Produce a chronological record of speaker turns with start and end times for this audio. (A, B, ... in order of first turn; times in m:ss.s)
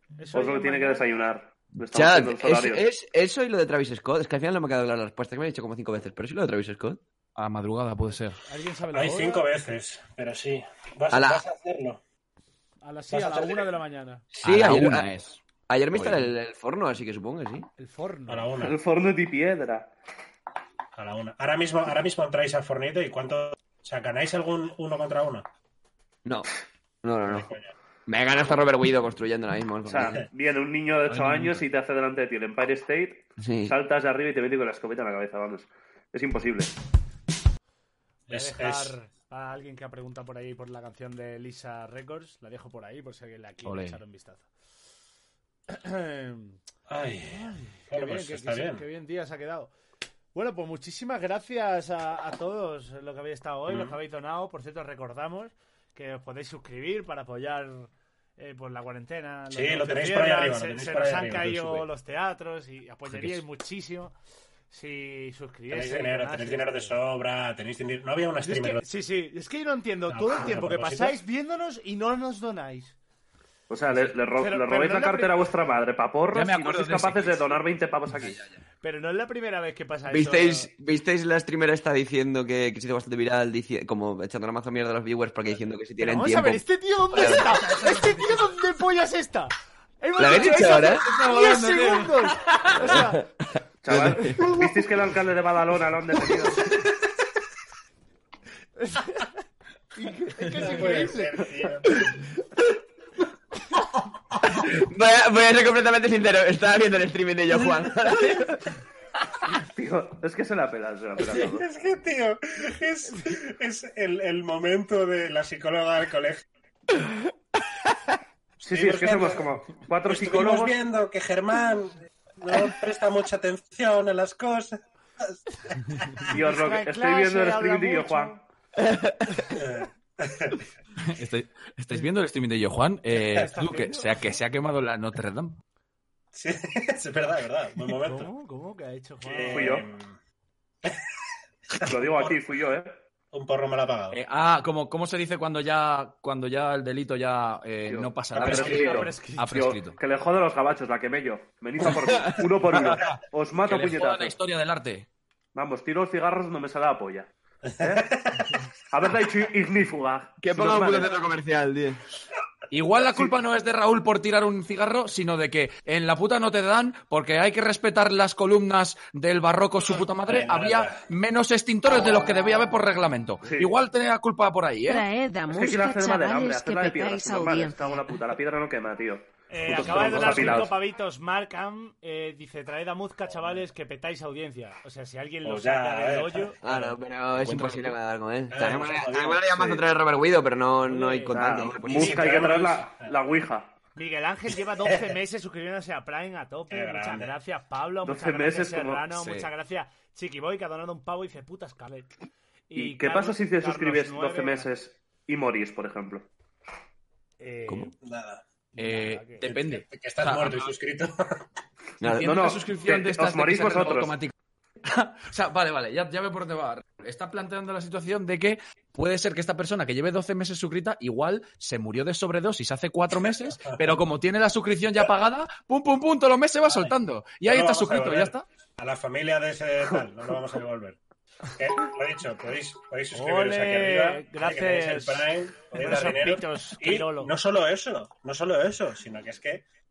0:00.2-0:01.0 A
0:00.3-0:02.8 B
0:01.9-0:07.0 C
0:07.4-0:08.4 D
0:08.4-0:09.5 A
0:08.9-0:12.0 E
0:11.1-0:11.4 C
0:12.8-0:14.2 A
0:13.1-0:13.7 E
0:14.4-0:15.1 C
0:14.4-0:15.4 D
0:15.7-0:17.7 C
0:15.9-0:16.3 D
0:17.8-0:18.5 A
0:18.3-0:18.8 E
0:18.6-0:19.9 B
0:20.9-0:25.5 E
0:27.0-0:27.5 C
0:27.3-0:27.7 E
0:28.1-0:30.3 C
0:29.8-0:36.7 B
0:31.1-0:31.6 D
0:33.4-0:33.7 C
0:38.3-0:38.9 E
0:38.3-0:44.5 A
0:43.6-0:44.0 D
0:45.7-0:46.6 A
0:46.9-0:48.8 E
0:47.3-0:49.7 A
0:50.3-1:04.1 A
0:53.7-0:54.0 E
0:59.5-1:01.9 E
1:03.1-1:03.4 D
1:04.7-1:07.0 A
1:05.7-1:08.8 E
1:08.4-1:12.9 A
1:10.1-1:11.2 E
1:13.7-1:18.4 B
1:14.4-1:15.4 A
1:16.3-1:17.5 D
1:18.1-1:18.6 D
1:18.8-1:20.7 A
1:20.1-1:27.6 C
1:26.0-1:33.2 A
1:27.8-1:28.2 D
1:30.2-1:31.1 C
1:30.4-1:32.9 D
1:32.8-1:33.2 C
1:33.8-1:36.8 B
1:33.9-1:34.5 C
1:38.8-1:39.3 A
1:40.0-1:41.4 A
1:40.5-1:42.2 E
1:44.4-1:48.6 C
1:49.5-1:51.6 B
1:51.2-1:56.4 E
1:58.6-2:00.8 B
1:58.6-2:06.3 E
2:06.3-2:08.4 A
2:06.3-2:08.4 B
2:09.4-2:10.6 E
2:11.0-2:15.6 D
2:13.2-2:13.8 E
2:13.7-2:14.0 A
2:16.3-2:18.3 E
2:18.0-2:19.8 A
2:19.2-2:20.2 E
2:19.5-2:19.9 B
2:21.7-2:22.3 E
2:21.8-2:22.9 B
2:23.3-2:24.2 E
2:24.1-2:30.0 D
2:27.9-2:34.3 B
2:28.3-2:29.1 E
2:28.5-2:29.5 A
2:32.7-2:33.1 D
2:33.6-2:35.1 D
2:35.6-2:38.0 B
2:37.7-2:38.6 E
2:38.9-2:41.1 B
2:40.4-2:42.0 C
2:42.7-2:55.1 D
2:50.3-2:51.0 E
2:53.4-2:53.7 B
2:54.9-2:58.2 F
2:55.5-3:00.7 B
2:59.5-3:06.6 A
2:59.8-3:00.6 E
3:05.4-3:07.0 E
3:06.6-3:12.4 C
3:07.4-3:07.9 D
3:08.5-3:09.8 E
3:10.9-3:11.4 A
3:11.3-3:13.7 B
3:11.9-3:13.1 E
3:14.0-3:22.1 A
3:14.8-3:15.1 E
3:16.7-3:17.3 E
3:18.0-3:19.0 B
3:19.2-3:19.5 D
3:22.7-3:24.7 A
3:22.7-3:26.3 B
3:27.4-3:27.9 A
3:28.0-3:28.4 E
3:28.7-3:29.4 A
3:28.8-3:30.7 D
3:29.4-3:31.4 E
3:32.0-3:32.4 C
3:32.0-3:34.3 D
3:32.2-3:34.1 B
3:34.8-3:48.4 D
3:43.6-3:43.9 E
3:46.7-3:59.6 E
3:53.1-3:57.3 A